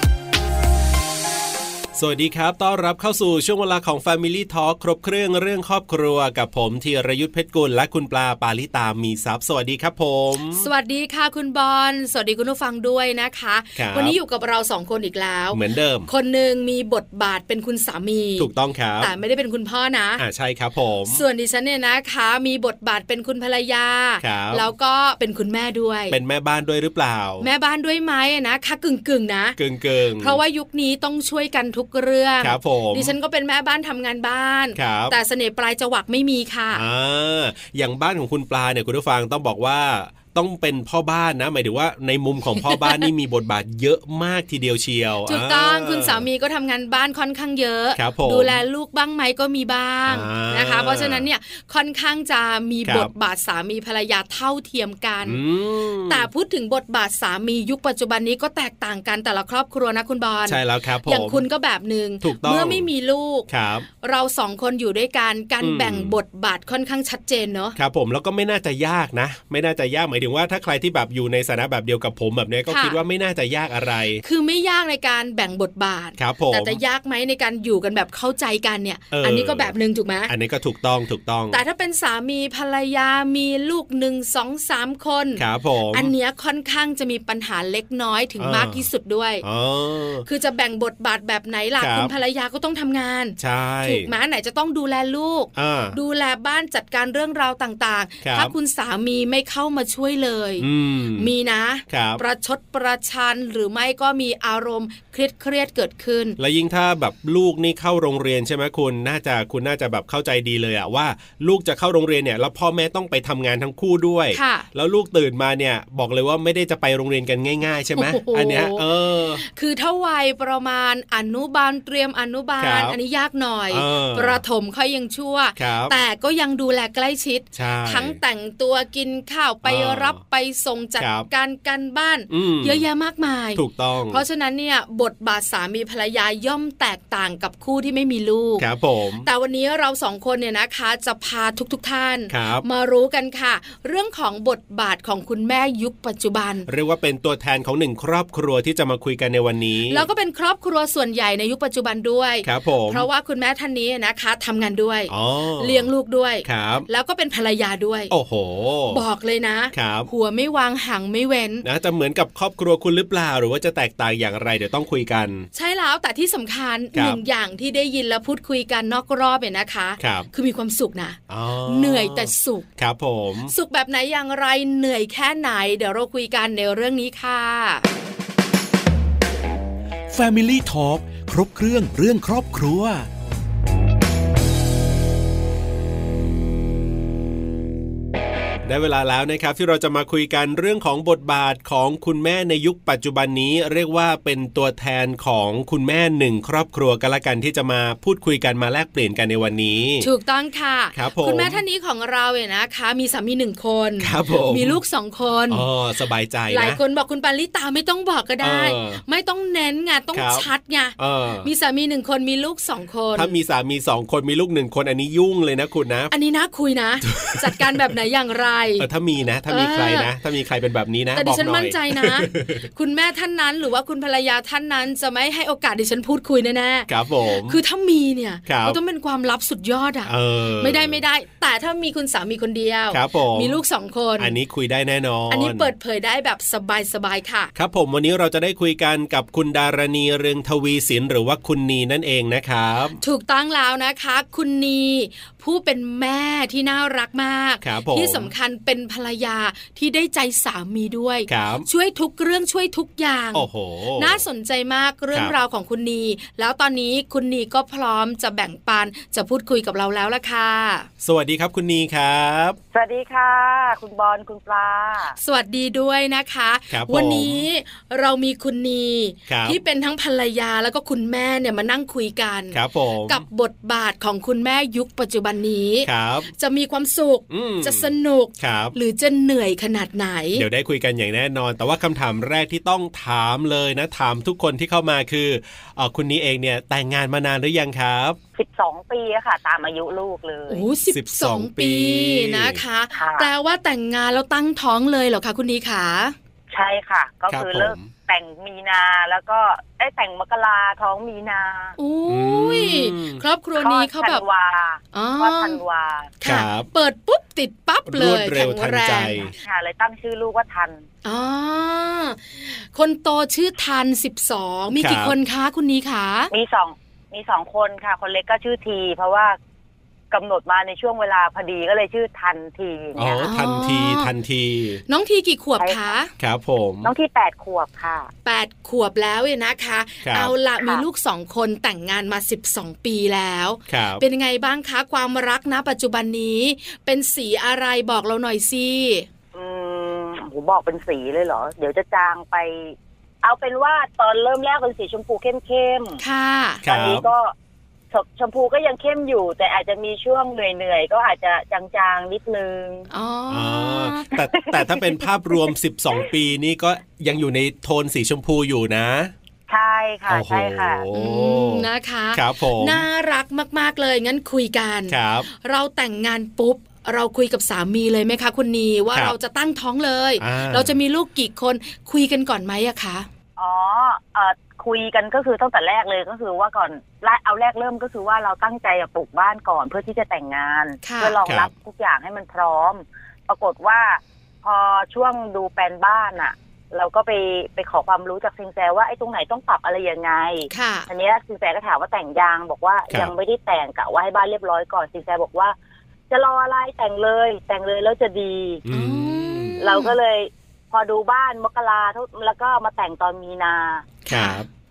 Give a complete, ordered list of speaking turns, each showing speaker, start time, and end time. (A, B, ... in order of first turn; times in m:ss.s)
0:01.9-0:10.7 A
0:10.5-0:20.2 B
0:13.8-0:14.2 A
0:15.5-0:16.1 A
0:18.4-0:19.1 A
0:20.2-0:21.2 A
0:21.1-0:26.2 B
0:24.2-0:24.6 A
0:26.1-0:27.5 A
0:27.4-0:29.6 B
0:29.6-0:30.4 A
0:30.2-0:36.8 B
0:32.4-0:33.1 A
0:34.7-0:35.2 A
0:36.7-0:46.2 A
0:42.7-0:43.0 B
0:45.2-0:55.4 B
0:48.0-0:48.6 A
0:50.1-0:51.2 A
0:52.8-0:53.1 A
0:55.2-0:56.3 A
0:56.1-1:03.5 B
1:00.5-1:01.4 A
1:02.2-1:02.9 A
1:03.5-1:03.9 A
1:04.0-1:07.8 B
1:05.6-1:06.2 A
1:07.8-1:14.2 A
1:12.7-1:13.0 B
1:14.2-1:20.3 B
1:16.2-1:16.8 A
1:19.1-1:19.7 A
1:20.3-1:21.6 A
1:21.5-1:29.4 B
1:25.4-1:26.1 A
1:28.4-1:28.9 A
1:29.4-1:30.2 A
1:30.2-1:46.4 B
1:31.8-1:32.1 A
1:33.4-1:34.1 A
1:35.5-1:36.0 A
1:38.2-1:38.5 A
1:40.6-1:41.3 A
1:41.9-1:42.2 A
1:46.4-1:59.4 A
1:54.3-1:54.7 B
1:57.9-2:18.6 B
2:02.6-2:03.0 A
2:03.7-2:04.4 A
2:05.6-2:06.0 A
2:07.5-2:08.2 A
2:09.6-2:10.2 A
2:11.0-2:11.3 A
2:12.3-2:12.8 A
2:13.5-2:14.2 A
2:18.6-2:19.3 A
2:19.2-2:26.7 B
2:22.3-2:22.6 A
2:26.6-2:30.1 A
2:29.9-2:38.1 B
2:32.4-2:33.1 A
2:35.1-2:35.9 A
2:36.4-2:36.9 A
2:38.1-2:39.0 A
2:38.9-2:41.6 B
2:39.7-2:40.1 A
2:41.6-2:45.5 A
2:45.5-2:52.7 B
2:46.9-2:47.2 A
2:50.0-2:50.3 A
2:51.3-2:53.5 A
2:53.5-2:57.9 B
3:00.1-3:03.1 C
3:08.6-3:20.1 A
3:20.0-3:25.6 B
3:20.9-3:21.6 A
3:24.0-3:24.8 A
3:25.5-3:26.8 A
3:26.5-3:33.4 B
3:28.4-3:29.0 A
3:30.1-3:31.5 A
3:33.1-3:36.1 A
3:36.1-3:38.9 B
3:37.0-3:37.7 A
3:38.8-3:42.7 A
3:39.5-3:40.1 B
3:41.1-3:54.4 B
3:46.9-3:47.6 A
3:48.4-3:48.8 A
3:50.0-3:51.0 A
3:52.9-3:53.6 A
3:54.2-3:55.7 A
3:55.3-3:57.5 B
3:57.5-4:03.0 A
4:03.0-4:20.9 B
4:07.6-4:08.3 A
4:11.3-4:11.7 A
4:13.3-4:14.2 A
4:21.0-4:22.6 A
4:22.7-4:25.2 D
4:25.2-4:40.4 B
4:26.7-4:27.4 A
4:29.3-4:29.6 A
4:32.5-4:33.2 A
4:35.8-4:36.3 A
4:37.3-4:38.8 A
4:40.4-4:48.2 A
4:48.4-4:50.6 D
4:50.5-4:56.1 B
4:50.9-4:52.6 A
4:52.9-4:53.3 D
4:56.5-5:01.8 D
4:57.3-4:57.9 A
5:01.8-5:04.2 B
5:02.1-5:03.2 A
5:03.6-5:06.1 D
5:04.9-5:05.6 B
5:06.2-5:09.3 B
5:06.2-5:06.7 A
5:07.9-5:09.3 A
5:09.4-5:10.8 D
5:11.0-5:16.3 B
5:14.8-5:15.1 A
5:16.3-5:19.4 D
5:20.1-5:23.1 D
5:23.0-5:24.1 B
5:23.0-5:24.8 A
5:24.9-5:26.1 B
5:25.6-5:25.9 D
5:26.2-5:26.9 A
5:26.8-5:28.1 D
5:28.2-5:39.1 B
5:30.0-5:30.3 A
5:30.6-5:30.8 D
5:33.7-5:34.0 A
5:39.3-5:46.0 D
5:46.0-5:46.6 B
5:46.6-5:47.1 A
5:46.6-5:47.3 D
5:47.9-5:52.9 D
5:52.9-5:54.1 B
5:53.3-5:59.1 A
5:54.4-5:54.8 D
5:59.5-6:00.8 D
6:00.1-6:02.8 A
6:00.9-6:13.1 B
6:04.9-6:05.3 A
6:10.2-6:10.7 A
6:13.4-6:35.5 D
6:20.8-6:21.2 B
6:21.2-6:21.5 A
6:30.5-6:30.9 B
6:36.1-6:38.6 D
6:38.6-6:39.6 A
6:38.7-6:40.0 B
6:39.6-6:43.9 D
6:44.0-6:44.4 B
6:44.1-6:44.5 A